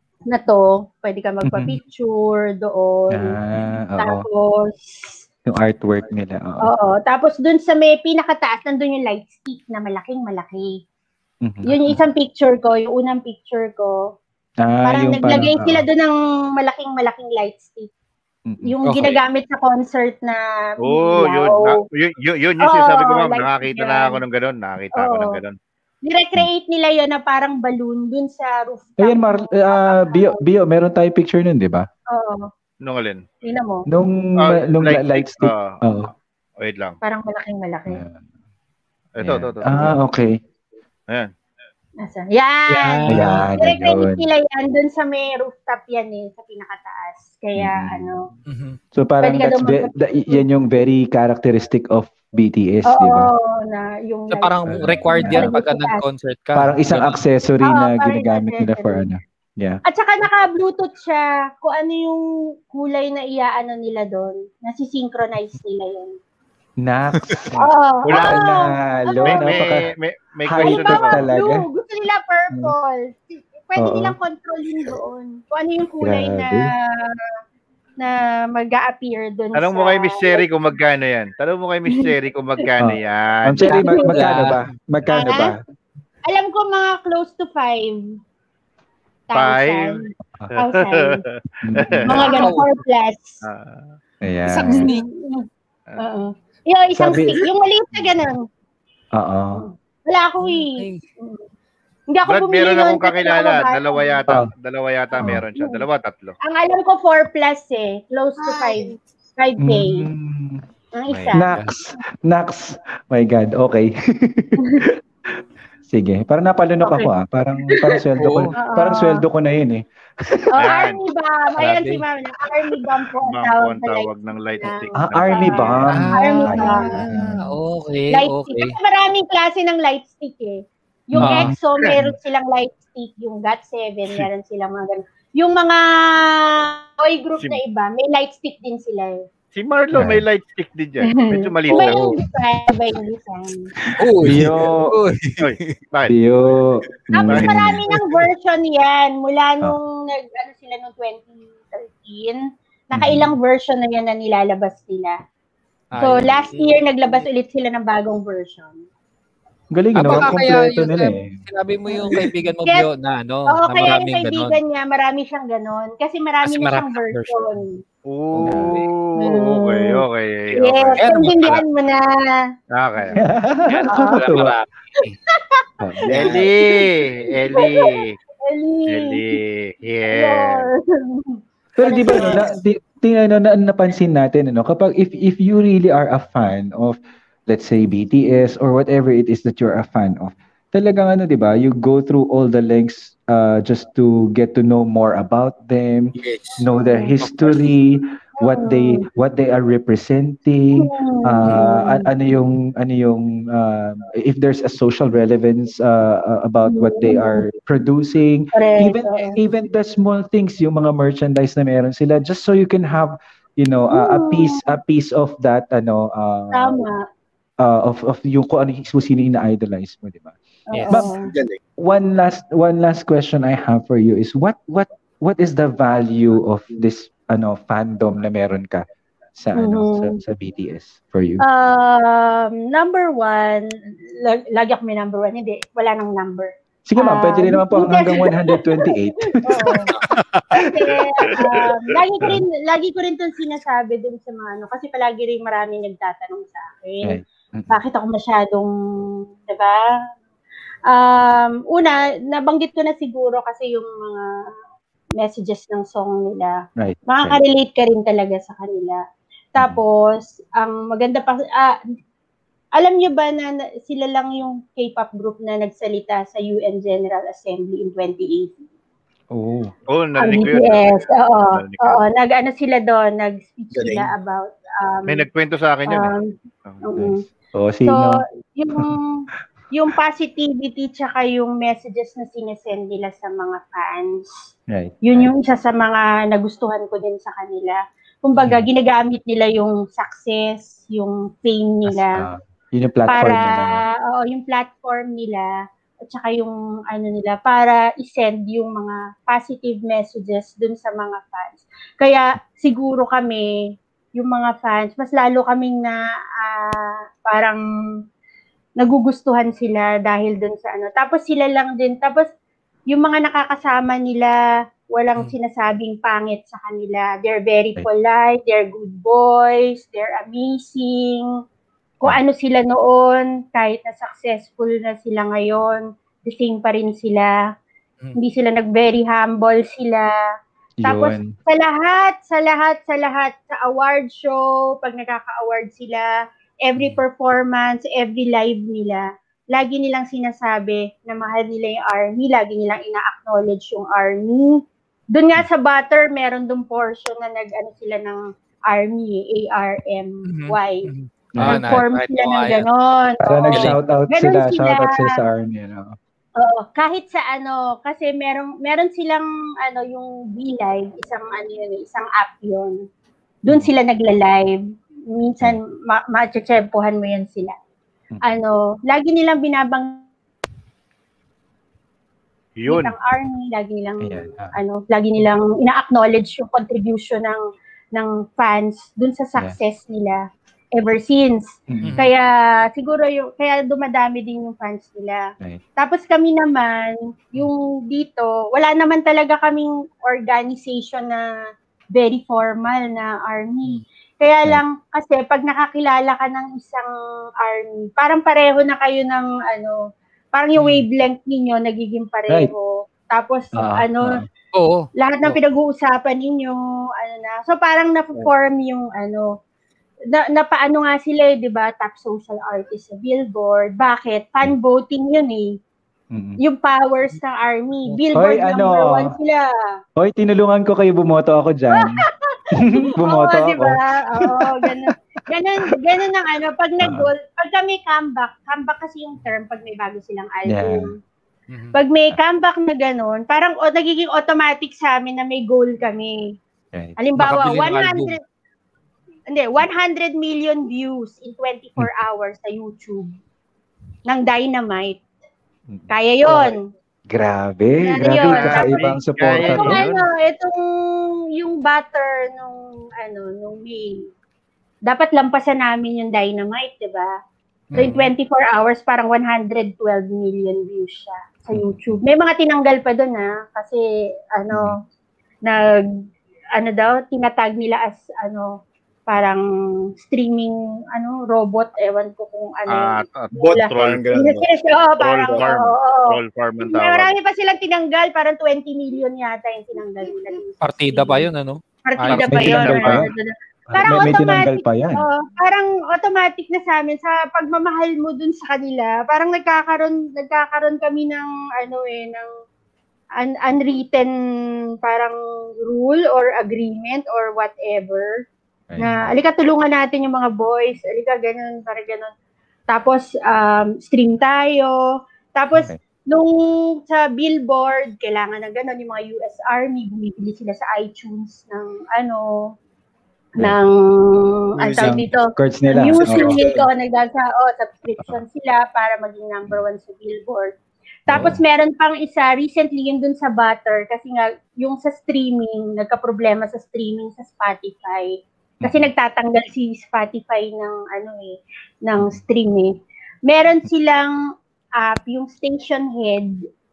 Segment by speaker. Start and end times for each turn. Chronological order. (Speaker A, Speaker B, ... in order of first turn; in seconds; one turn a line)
Speaker A: 0.3-3.4
Speaker B: 1.4-1.8
Speaker B: 3.1-4.2
Speaker A: 4.0-5.2
Speaker B: 5.5-6.7
Speaker A: 6.6-10.8
Speaker B: 11.4-12.0
Speaker A: 11.7-14.0
Speaker B: 14.6-15.8
Speaker A: 14.8-17.9
Speaker B: 18.4-18.7
Speaker A: 18.6-21.8
Speaker C: 18.9-19.1
Speaker D: 20.8-25.6
Speaker A: 22.6-24.2
Speaker A: 24.9-25.4
Speaker A: 26.0-30.4
Speaker B: 29.0-31.9
Speaker A: 32.1-32.5
Speaker D: 32.8-33.2
Speaker A: 33.4-33.9
Speaker B: 33.9-36.1
Speaker D: 34.4-35.8
Speaker D: 36.6-37.0
Speaker A: 37.0-38.0
Speaker B: 37.9-38.2
Speaker D: 39.1-40.0
Speaker B: 39.2-40.4
Speaker A: 42.0-48.3
Speaker C: 42.7-43.4
Speaker B: 43.1-44.2
Speaker B: 47.5-48.1
Speaker C: 48.5-48.8
Speaker B: 48.9-53.3
Speaker A: 49.2-50.4
Speaker A: 52.9-56.0
Speaker C: 54.3-57.2
Speaker B: 54.7-55.5
Speaker B: 56.5-59.8
Speaker A: 57.6-59.1
Speaker A: 59.9-66.2
Speaker B: 66.8-67.6
Speaker D: 67.5-68.5
Speaker A: 67.6-69.7
Speaker B: 68.1-69.8
Speaker D: 69.2-71.2
Speaker B: 70.5-71.7
Speaker A: 70.6-77.3
Speaker B: 73.8-74.2
Speaker B: 76.0-76.7
Speaker A: 78.0-80.4
Speaker D: 79.5-83.7
Speaker B: 82.8-85.6
Speaker A: 83.7-84.2
Speaker C: 83.7-84.6
Speaker A: 85.1-85.5
Speaker A: 86.3-88.0
Speaker A: 89.3-91.2
Speaker D: 89.3-92.5
Speaker B: 91.6-92.3
Speaker A: 92.0-93.4
Speaker C: 92.2-92.7
Speaker D: 93.4-93.8
Speaker B: 94.2-94.9
Speaker A: 94.5-95.5
Speaker A: 96.0-98.4
Speaker B: 96.9-98.1
Speaker B: 99.1-99.6
Speaker A: 99.5-101.4
Speaker C: 100.4-101.0
Speaker A: 102.1-104.2
Speaker D: 102.3-106.3
Speaker A: 105.2-105.8
Speaker A: 106.4-110.1
Speaker B: 109.6-115.0
Speaker A: 110.9-111.5
Speaker C: 111.5-111.8
Speaker B: 115.9-120.5
Speaker A: 116.8-117.1
Speaker C: 118.2-118.5
Speaker A: 118.5-119.2
Speaker A: 120.5-126.9
Speaker D: 120.6-121.0
Speaker C: 121.6-122.0
Speaker D: 123.2-126.0
Speaker B: 125.0-127.5
Speaker C: 125.9-128.7
Speaker A: 128.1-139.2
Speaker B: 131.1-131.6
Speaker C: 131.2-131.6
Speaker D: 139.5-142.1
Speaker B: 139.9-140.2
Speaker A: 141.1-143.7
Speaker C: 141.7-142.2
Speaker B: 143.8-145.0
Speaker C: 143.9-145.8
Speaker D: 145.4-146.2
Speaker B: 146.1-147.8
Speaker A: 147.1-155.2
Speaker D: 147.3-147.7
Speaker B: 152.9-153.3
Speaker C: 155.9-156.7
Speaker A: 156.0-158.8
Speaker B: 159.7-161.3
Speaker C: 159.9-164.6
Speaker A: 163.5-167.8
Speaker C: 166.4-167.6
Speaker D: 168.1-171.5
Speaker B: 168.4-168.8
Speaker C: 168.4-169.4
Speaker A: 169.2-170.0
Speaker A: 170.5-172.4
Speaker C: 171.0-171.6
Speaker D: 172.7-173.2
Speaker B: 173.2-174.5
Speaker C: 173.7-175.2
Speaker A: 173.9-174.3
Speaker A: 175.0-179.4
Speaker B: 175.8-176.4
Speaker E: 176.1-176.5
Speaker D: 176.1-178.2
Speaker D: 178.9-180.7
Speaker A: 180.1-182.6
Speaker B: 181.8-216.8
Speaker E: 196.2-196.6
Speaker E: 197.3-197.6
Speaker A: 198.4-199.0
Speaker A: 200.8-202.1
Speaker A: 206.7-207.4
Speaker A: 208.5-209.4
Speaker A: 213.9-214.7
Speaker A: 216.5-217.0
Speaker B: 217.6-220.3
Speaker A: 220.7-221.3
Speaker C: 220.7-221.0
Speaker B: 220.9-221.1
Speaker E: 221.1-221.6
Speaker B: 221.8-231.4
Speaker A: 229.6-230.2
Speaker A: 231.4-239.9
Speaker B: 236.9-239.9
Speaker A: 240.5-248.7
Speaker D: 241.2-241.7
Speaker B: 247.0-247.8
Speaker A: 249.5-249.8
Speaker A: 250.9-254.2
Speaker A: 255.2-259.0
Speaker B: 256.8-257.4
Speaker A: 259.5-261.8
Speaker A: 262.8-268.5
Speaker B: 269.3-269.7
Speaker D: 269.9-272.1
Speaker A: 270.2-275.2
Speaker E: 273.7-274.1
Speaker D: 275.1-276.1
Speaker A: 275.9-276.2
Speaker A: 276.8-277.2
Speaker B: 276.9-278.2
Speaker A: 277.9-284.2
Speaker B: 284.7-285.3
Speaker A: 285.0-292.2
Speaker B: 288.4-288.6
Speaker B: 291.9-293.8
Speaker A: 293.1-295.5
Speaker A: 296.1-303.5
Speaker A: 304.2-307.6
Speaker A: 308.8-312.3
Speaker A: 312.9-314.4
Speaker A: 314.9-321.3
Speaker A: 322.0-327.3
Speaker A: 328.1-330.1
Speaker B: 330.8-331.3
Speaker A: 330.8-336.1
Speaker A: 336.6-344.6
Speaker A: 345.1-350.9
Speaker C: 350.3-352.7
Speaker B: 351.3-351.8
Speaker A: 351.4-355.2
Speaker B: 353.2-355.9
Speaker A: 356.4-362.8
Speaker A: 363.4-364.6
Speaker A: 365.1-367.5
Speaker A: 368.2-370.0
Speaker D: 372.6-372.9
Speaker A: 372.7-377.4
Speaker B: 374.0-374.5
Speaker A: 377.9-380.2
Speaker A: 380.8-381.4
Speaker B: 381.7-382.0
Speaker C: 381.8-382.1
Speaker A: 382.0-385.2
Speaker A: 385.8-391.2
Speaker A: 391.9-396.9
Speaker A: 397.4-399.8
Speaker A: 400.3-404.2
Speaker C: 400.6-400.8
Speaker B: 403.6-404.2
Speaker C: 404.5-405.4
Speaker A: 405.0-409.3
Speaker A: 410.1-415.5
Speaker B: 416.1-416.4
Speaker A: 416.4-419.4
Speaker B: 418.1-419.1
Speaker B: 420.0-422.0
Speaker A: 421.8-430.9
Speaker B: 422.5-424.9
Speaker B: 426.8-427.1
Speaker B: 430.5-430.9
Speaker A: 431.7-436.3
Speaker A: 437.0-438.2
Speaker C: 437.2-438.1
Speaker A: 439.3-443.1
Speaker A: 444.1-445.0
Speaker A: 445.9-446.6
Speaker B: 447.1-449.8
Speaker A: 447.8-448.8
Speaker D: 448.2-450.0
Speaker A: 449.4-454.1
Speaker A: 454.9-457.1
Speaker C: 457.7-458.1
Speaker A: 457.8-463.8
Speaker B: 461.5-462.0
Speaker A: 464.4-464.8
Speaker B: 464.5-464.8
Speaker A: 465.4-465.8
Speaker A: 466.6-469.4
Speaker A: 470.0-481.3
Speaker D: 472.7-474.0
Speaker E: 473.4-474.5
Speaker D: 475.0-477.1
Speaker C: 480.6-482.7
Speaker A: 481.9-492.3
Speaker D: 482.1-483.1
Speaker B: 482.3-483.1
Speaker B: 483.7-485.0
Speaker A: 493.2-494.1
Speaker A: 494.8-498.1
Speaker B: 498.7-499.1
Speaker A: 498.8-502.1
Speaker A: 502.7-504.8
Speaker A: 505.4-512.5
Speaker A: 513.4-520.5
Speaker E: 514.6-515.0
Speaker B: 514.8-516.4
Speaker E: 515.9-516.7
Speaker A: 521.1-532.7
Speaker B: 521.1-521.4
Speaker B: 528.6-528.9
Speaker A: 533.2-534.1
Speaker A: 534.8-536.4